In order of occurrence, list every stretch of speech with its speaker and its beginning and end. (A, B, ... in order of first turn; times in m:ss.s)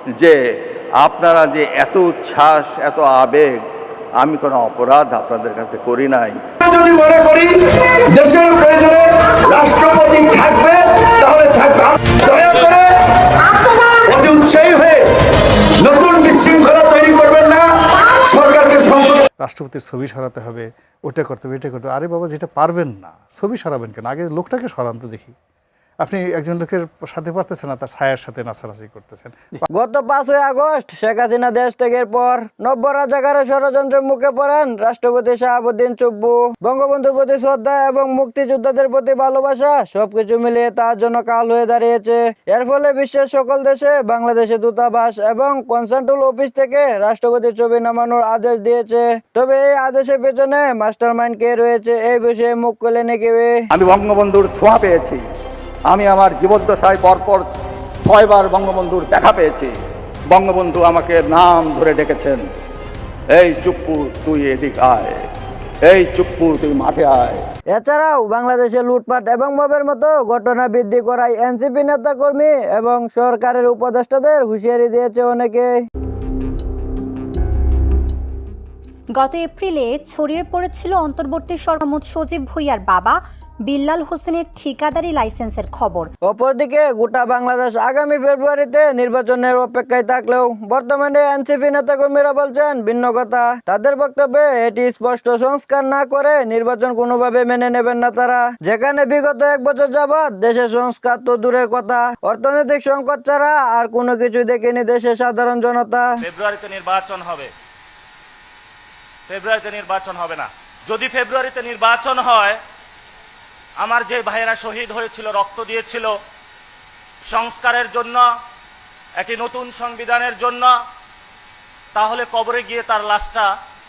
0:01.0-0:03.6 A
0:04.2-0:06.4 A
0:06.6-0:13.0 B
0:14.0-0:15.1 B
0:15.8-0:19.2 B
0:19.4-0:25.3 C
0:26.0-0:29.6 C
0:29.7-0:53.5 D
0:53.7-0:55.2 A
0:55.9-0:57.5 A
0:58.0-0:59.7 A
1:00.3-1:02.4 A
1:03.3-1:05.2 A
1:05.8-1:07.4 A
1:07.7-1:15.7 D
1:19.1-1:26.1 E
1:26.3-1:46.1 D
1:46.2-1:47.5 F
1:49.3-1:52.6 F
1:53.8-1:56.1 F
1:57.3-1:58.2 F
1:59.2-2:00.7 F
2:01.9-2:03.5 F